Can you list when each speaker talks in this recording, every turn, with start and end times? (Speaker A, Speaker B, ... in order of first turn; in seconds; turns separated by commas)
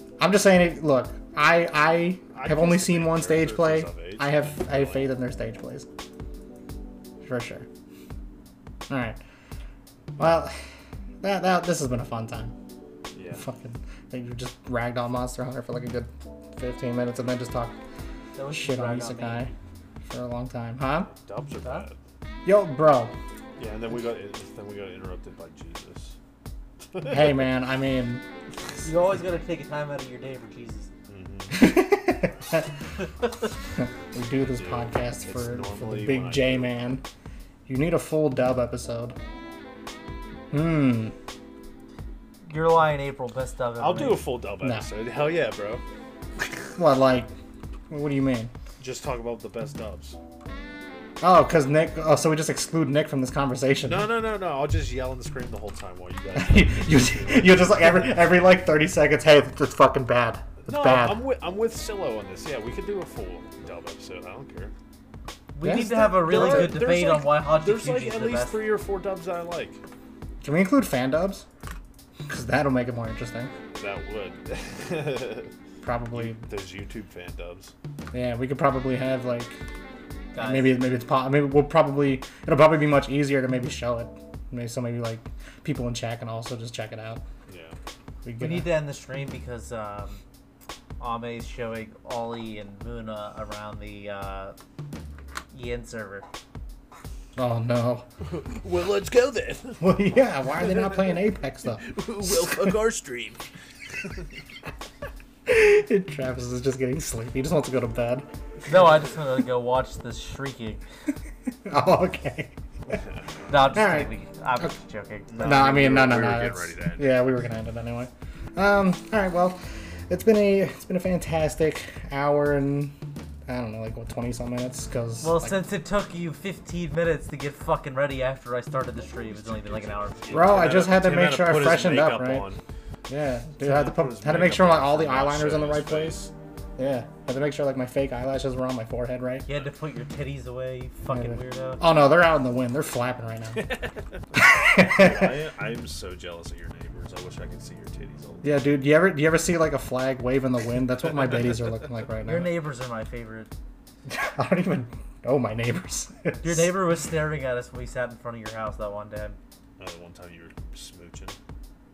Speaker A: 0.2-5.9, Speaker B: 2.3-5.1, Speaker A: 7.2-7.7, Speaker A: 8.9-9.2, Speaker A: 10.2-10.5, Speaker A: 11.2-12.5, Speaker B: 13.1-13.4, Speaker A: 13.3-17.8, Speaker C: 18.3-19.5, Speaker A: 18.5-19.5, Speaker A: 20.0-21.1, Speaker B: 21.1-22.0, Speaker A: 22.4-23.1, Speaker B: 23.6-26.1, Speaker B: 26.9-27.4, Speaker A: 27.1-28.2, Speaker C: 28.8-30.9, Speaker B: 31.1-31.7, Speaker A: 31.5-32.7, Speaker A: 33.8-37.0, Speaker B: 34.5-36.7, Speaker A: 37.7-39.2, Speaker A: 40.5-41.1, Speaker C: 42.5-44.2, Speaker B: 43.8-45.8, Speaker A: 46.8-47.3, Speaker A: 47.9-48.5, Speaker B: 48.8-50.2, Speaker A: 51.2-54.1, Speaker B: 53.8-58.3, Speaker A: 56.3-61.2, Speaker B: 60.6-64.7, Speaker C: 65.5-68.7, Speaker A: 65.6-66.8, Speaker B: 66.0-69.8, Speaker A: 70.4-71.4, Speaker A: 72.3-73.5, Speaker B: 73.7-75.5, Speaker A: 75.8-76.4, Speaker B: 76.1-77.7, Speaker A: 78.1-79.6, Speaker C: 80.3-80.8, Speaker A: 80.4-87.2, Speaker B: 87.5-87.8, Speaker A: 88.2-88.7, Speaker C: 88.4-90.2, Speaker C: 91.0-94.5, Speaker C: 95.5-96.3, Speaker A: 97.3-98.0, Speaker B: 98.2-100.0, Speaker A: 99.8-102.8, Speaker B: 101.8-103.4, Speaker A: 105.5-108.3, Speaker C: 108.7-110.8, Speaker A: 111.7-112.5, Speaker B: 112.9-113.2, Speaker C: 113.5-115.8, Speaker A: 113.7-114.1, Speaker B: 115.3-117.2, Speaker A: 115.4-122.9, Speaker A: 123.5-125.6, Speaker C: 125.2-130.5, Speaker B: 129.2-132.6, Speaker A: 130.3-132.5, Speaker A: 133.1-139.4, Speaker B: 133.6-136.3, Speaker C: 139.4-141.8, Speaker A: 141.1-143.7, Speaker B: 143.6-148.6, Speaker A: 144.3-145.4, Speaker A: 148.4-152.5, Speaker C: 152.2-153.5, Speaker A: 154.1-156.8, Speaker C: 156.4-159.4, Speaker B: 159.8-161.4